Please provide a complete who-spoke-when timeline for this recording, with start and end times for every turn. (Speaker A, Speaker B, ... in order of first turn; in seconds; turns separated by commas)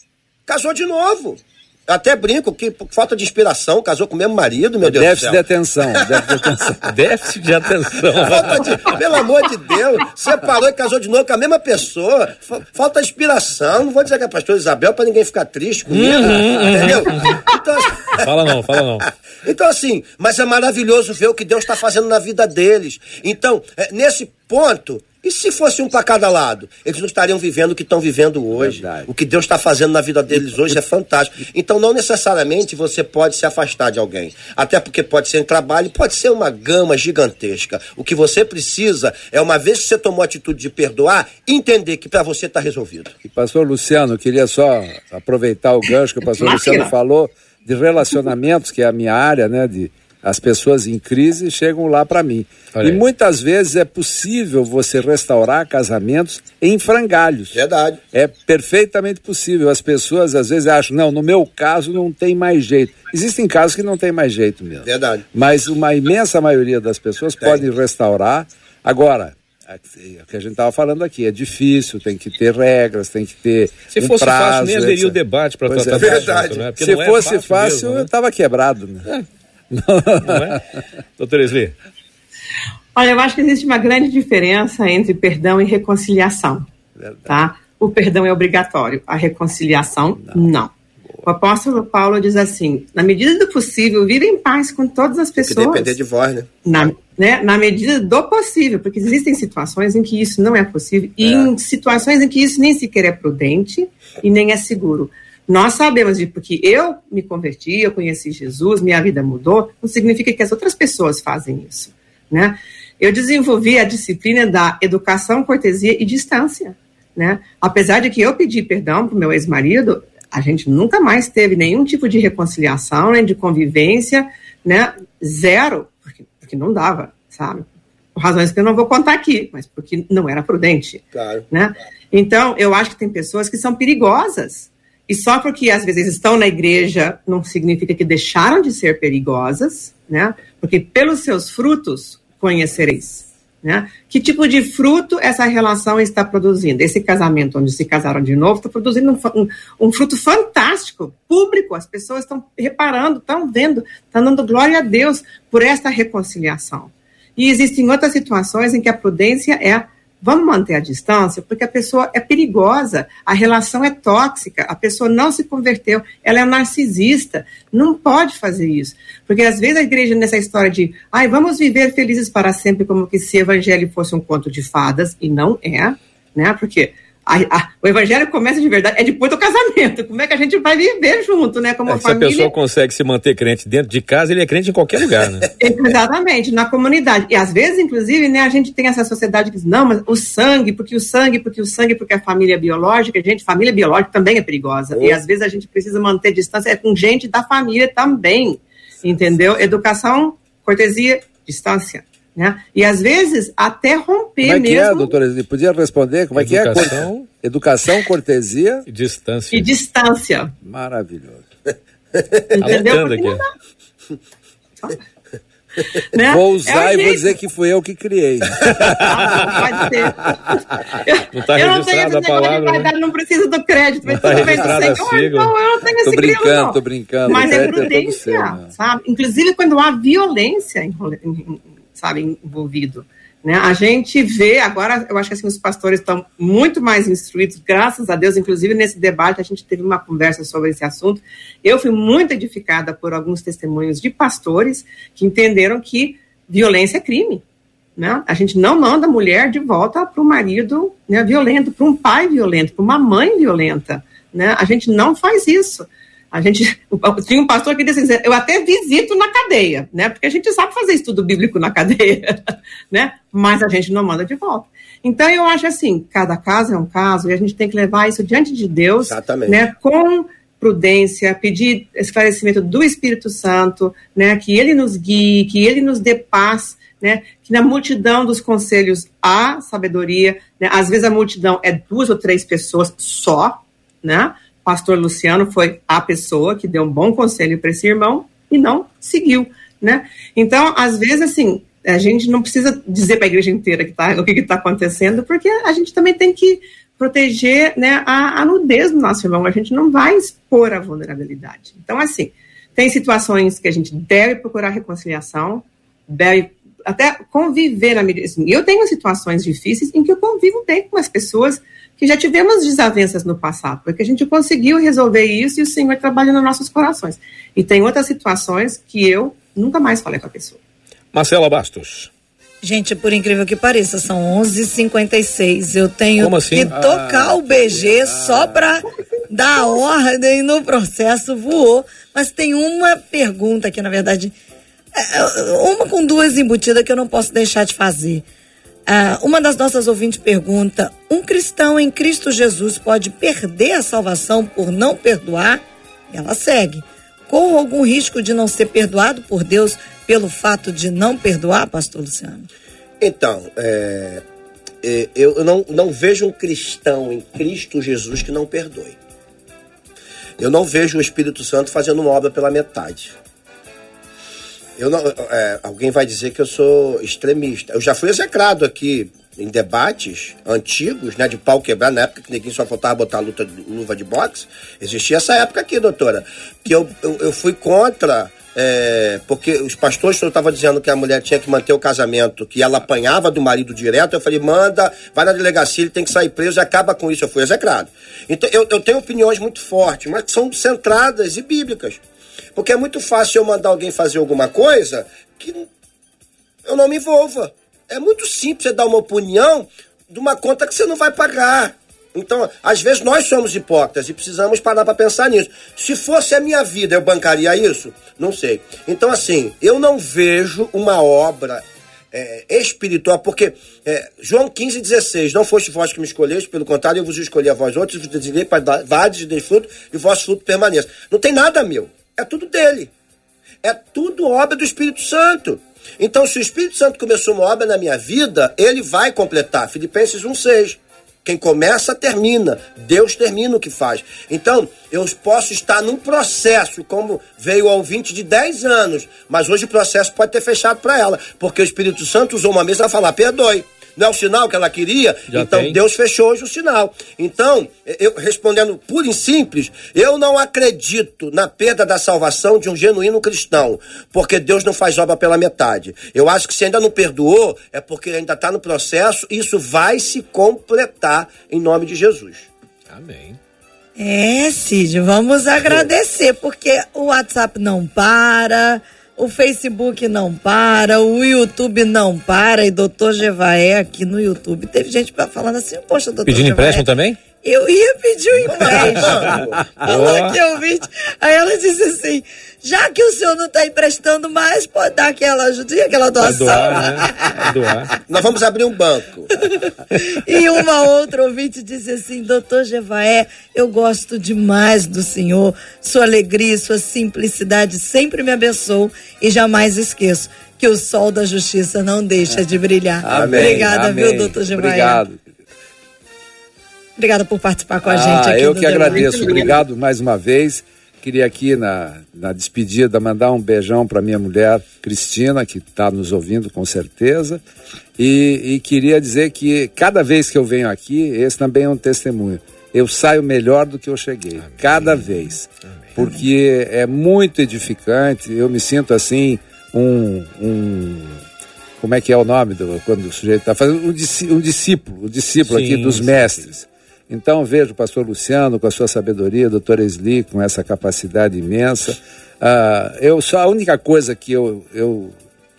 Speaker A: 0.5-5.4, Speaker B: 4.8-6.8, Speaker C: 6.8-8.7, Speaker A: 8.2-18.3, Speaker C: 15.9-17.3, Speaker C: 18.1-19.1, Speaker A: 19.4-43.1, Speaker B: 28.5-29.1, Speaker B: 43.2-57.5, Speaker D: 46.3-46.9, Speaker C: 52.7-53.0, Speaker A: 57.5-58.0, Speaker B: 58.1-79.1, Speaker A: 64.8-65.2, Speaker C: 73.9-78.1, Speaker A: 76.0-76.6, Speaker B: 79.7-80.6, Speaker C: 80.2-80.6, Speaker C: 81.2-81.7, Speaker D: 82.9-86.7, Speaker B: 87.0-87.3, Speaker D: 87.3-90.7, Speaker B: 90.2-90.5, Speaker D: 91.2-96.0, Speaker A: 95.5-96.9, Speaker D: 96.6-182.5, Speaker A: 101.2-101.5, Speaker A: 131.1-131.4, Speaker C: 181.9-185.5, Speaker D: 185.6-205.1, Speaker B: 204.4-208.9, Speaker C: 206.3-207.3, Speaker C: 208.9-209.7, Speaker D: 209.5-210.5, Speaker B: 210.6-211.4, Speaker D: 212.5-213.5, Speaker C: 212.6-213.4, Speaker D: 216.1-217.3, Speaker B: 216.3-219.9, Speaker C: 218.6-219.0, Speaker D: 218.8-247.4, Speaker C: 221.3-222.9, Speaker C: 224.1-225.5, Speaker B: 224.2-224.8, Speaker B: 226.0-228.7, Speaker D: 248.0-320.6, Speaker A: 269.0-269.6, Speaker C: 321.1-322.1, Speaker E: 322.6-334.3, Speaker C: 326.2-326.7, Speaker B: 326.7-328.8, Speaker E: 334.9-338.2, Speaker E: 338.9-352.4, Speaker A: 353.0-354.2, Speaker A: 354.8-358.9, Speaker A: 360.4-363.1, Speaker A: 364.8-392.0, Speaker A: 392.6-395.6, Speaker A: 396.6-422.9, Speaker A: 423.6-462.5, Speaker C: 445.3-445.8, Speaker C: 462.9-463.4, Speaker E: 464.0-487.9, Speaker C: 476.2-477.2, Speaker A: 478.5-479.8, Speaker C: 478.7-479.3, Speaker C: 479.8-480.4, Speaker C: 486.2-487.9, Speaker A: 488.1-489.3, Speaker E: 489.4-505.0, Speaker B: 503.0-505.2, Speaker A: 503.1-503.7, Speaker E: 507.0-509.4, Speaker B: 507.8-517.4, Speaker D: 508.7-509.5, Speaker B: 518.0-531.2, Speaker C: 524.5-525.2, Speaker B: 531.8-545.2, Speaker C: 535.5-536.4